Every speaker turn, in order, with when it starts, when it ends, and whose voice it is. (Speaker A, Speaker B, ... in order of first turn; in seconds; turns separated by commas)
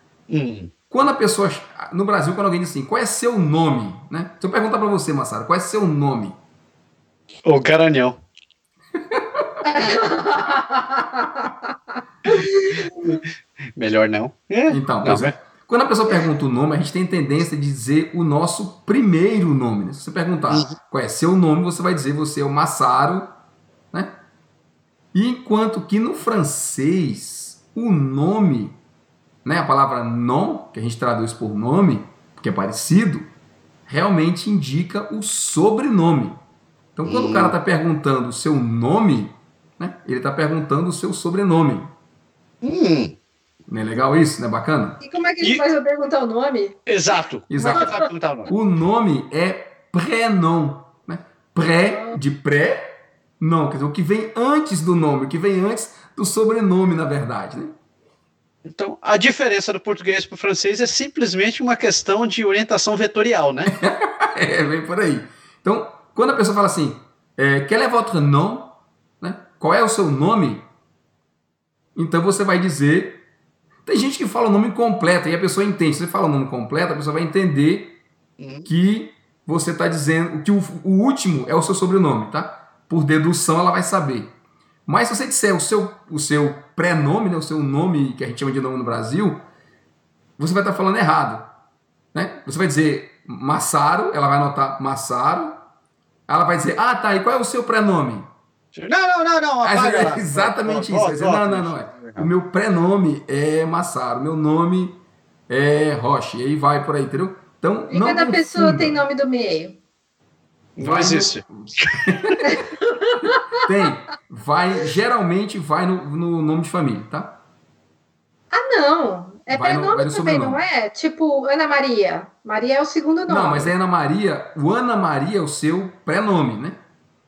Speaker A: 0.3-0.7, Speaker B: 0.9-6.3, Speaker A: 7.4-8.2, Speaker B: 9.1-9.5, Speaker C: 9.6-11.5, Speaker C: 12.3-13.2, Speaker A: 13.8-15.3, Speaker B: 14.7-23.3, Speaker A: 20.5-20.8, Speaker B: 25.1-28.8, Speaker B: 29.4-33.3, Speaker B: 33.9-36.4, Speaker B: 37.0-41.9, Speaker A: 37.0-37.5, Speaker A: 42.6-43.1, Speaker B: 43.7-45.0, Speaker C: 45.0-46.8, Speaker A: 46.9-48.5, Speaker B: 47.5-47.9, Speaker C: 47.6-48.0, Speaker B: 48.5-52.9, Speaker C: 51.8-52.2, Speaker B: 53.4-57.7, Speaker A: 58.6-63.7, Speaker B: 63.6-70.7, Speaker B: 72.0-73.2, Speaker B: 73.8-78.0, Speaker A: 78.4-78.7, Speaker B: 78.7-84.3, Speaker B: 84.8-89.4, Speaker B: 90.4-91.5, Speaker B: 92.1-95.6, Speaker B: 96.3-98.3, Speaker A: 98.7-102.3, Speaker B: 99.6-109.0, Speaker C: 107.9-109.8, Speaker A: 110.8-112.3, Speaker B: 110.8-112.3, Speaker C: 112.4-113.6, Speaker B: 113.6-117.4, Speaker C: 118.5-123.7, Speaker B: 119.5-120.6, Speaker B: 123.3-126.8